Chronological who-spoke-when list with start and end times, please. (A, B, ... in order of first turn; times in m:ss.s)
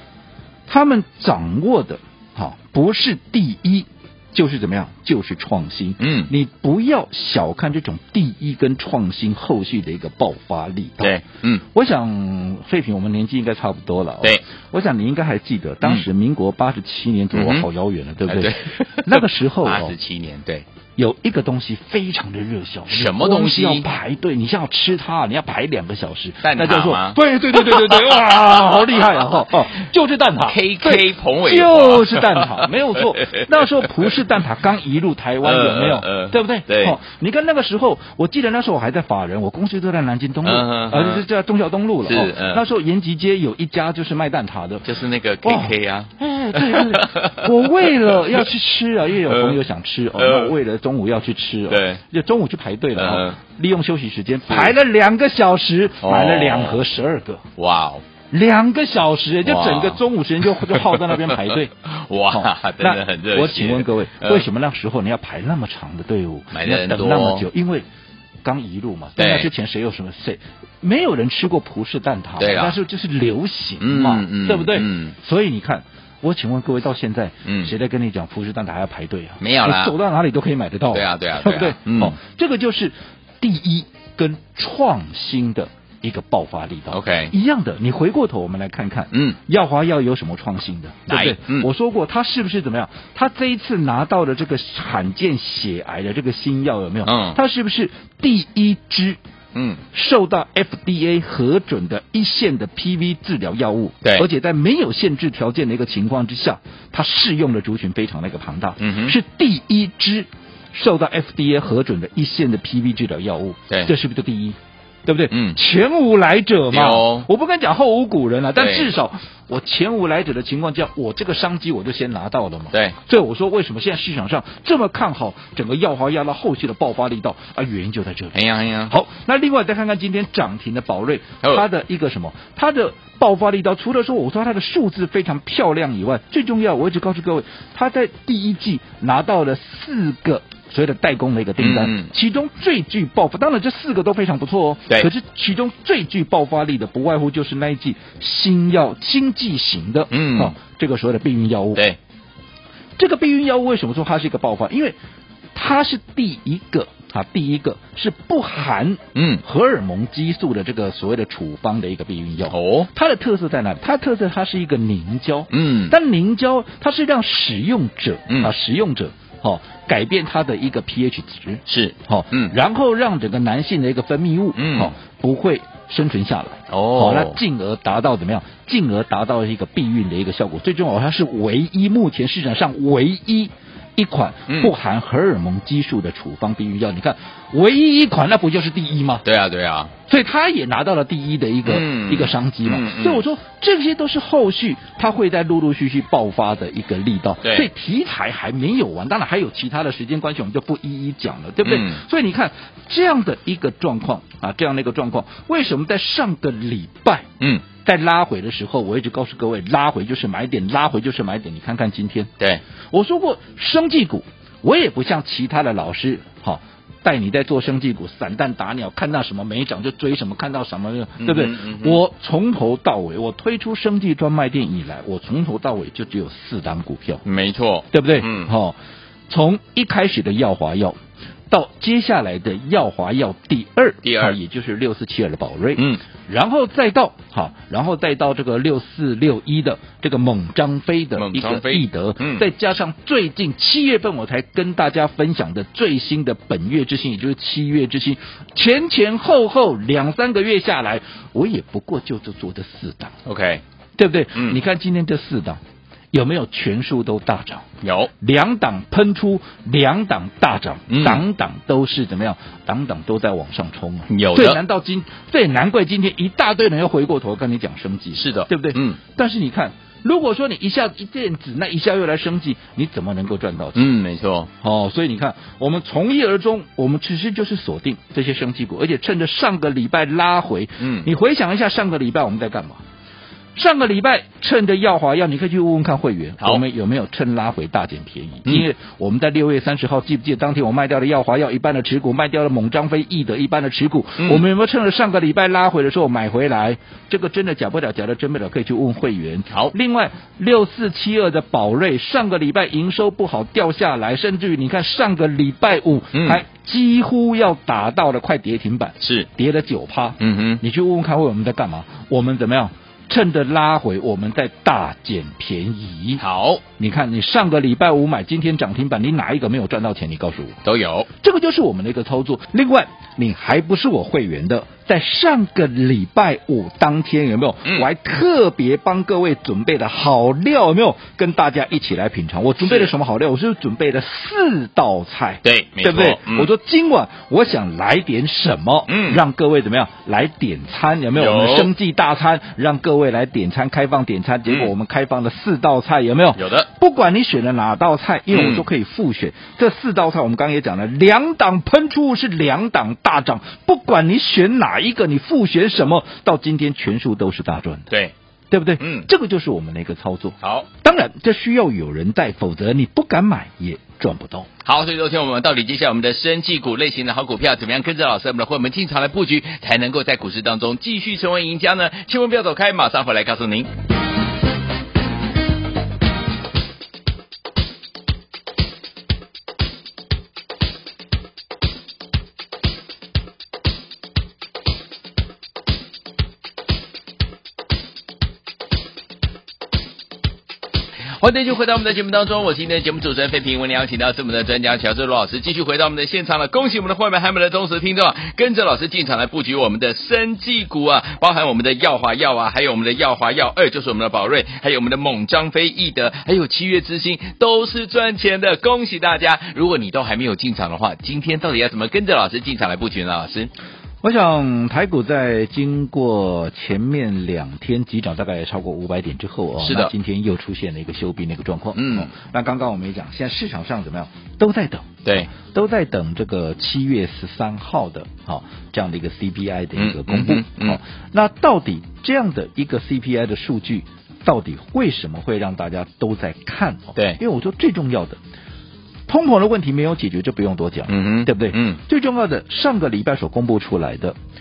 0:00.7-0:11.2 A
0:06.0-0:06.3 B
0:11.0-0:11.6 B
0:11.7-0:20.0 A
0:17.3-0:17.7 B
0:18.3-0:20.6 B
0:21.0-0:44.9 A
0:22.9-0:23.9 B
0:26.4-0:29.2 B
0:30.4-0:34.1 B
0:35.4-0:37.0 B
0:40.4-0:41.2 B
0:42.0-0:42.6 B
0:44.8-0:48.4 B
0:45.4-0:57.4 A
0:49.3-0:49.6 B
0:50.2-0:50.5 B
0:51.7-0:52.0 B
0:53.0-0:53.4 B
0:54.5-0:54.8 B
0:56.0-0:56.8 B
0:57.6-0:58.0 B
0:58.3-1:01.7 A
0:59.4-1:04.5 B
1:02.3-1:07.8 A
1:06.5-1:07.5 B
1:08.4-1:39.2 A
1:09.2-1:09.5 B
1:12.4-1:12.8 B
1:13.8-1:15.2 B
1:17.5-1:17.7 B
1:19.4-1:20.0 B
1:20.9-1:22.2 B
1:26.9-1:27.3 B
1:29.1-1:29.4 B
1:31.1-1:31.7 B
1:37.0-1:37.4 B
1:39.5-1:39.8 B
1:39.9-2:31.9 A
1:48.8-1:49.2 B
1:55.3-1:55.6 B
1:56.7-1:57.3 B
1:58.6-1:58.9 B
2:08.3-2:08.9 B
2:21.6-2:22.1 B
2:30.1-2:30.6 B
2:33.0-2:35.0 A
2:35.6-3:09.2 A
2:39.2-2:39.4 B
2:42.5-2:42.9 B
2:45.5-2:46.0 B
2:51.7-2:52.5 B
2:54.6-2:54.9 B
2:56.7-2:57.4 B
3:09.2-3:09.9 B
3:10.1-3:27.3 A
3:11.6-3:13.2 B
3:17.4-3:17.7 B
3:21.6-3:22.0 B
3:27.8-3:32.3 A
3:32.9-3:47.2 A
3:41.2-3:42.0 B
3:47.2-3:48.5 B
3:47.9-3:48.8 A
3:49.3-3:51.0 A
3:51.5-4:13.2 A
3:54.0-3:54.4 B
3:55.8-3:56.0 B
4:01.2-4:02.4 B
4:13.3-4:13.6 B
4:14.0-4:15.6 A
4:16.1-4:17.7 A
4:17.8-4:18.1 B
4:18.2-4:33.9 A
4:20.9-4:21.2 B
4:24.1-4:24.6 B
4:28.2-4:29.0 B
4:33.8-4:34.5 B
4:34.6-4:42.8 A
4:40.8-4:41.1 B
4:43.6-5:16.2 A
4:54.2-4:54.4 B
5:06.1-5:06.4 B
5:09.0-5:09.3 B
5:10.2-5:10.6 B
5:16.2-5:16.6 B
5:16.8-5:20.6 A
5:20.6-5:21.1 B
5:21.2-5:57.9 A
5:32.6-5:32.9 B
5:35.4-5:36.5 B
5:38.9-5:39.2 B
5:41.2-5:41.7 B
5:44.5-5:44.7 B
5:46.4-5:46.7 B
5:48.3-5:48.7 B
5:58.5-6:04.5 A
5:58.8-5:59.1 B
6:00.4-6:00.7 B
6:04.6-6:13.7 B
6:31.2-6:53.5 B
6:54.0-7:18.2 A
6:59.6-6:59.9 B
7:01.8-7:02.1 B
7:09.8-7:10.8 B
7:19.1-7:24.2 A
7:20.9-7:21.8 B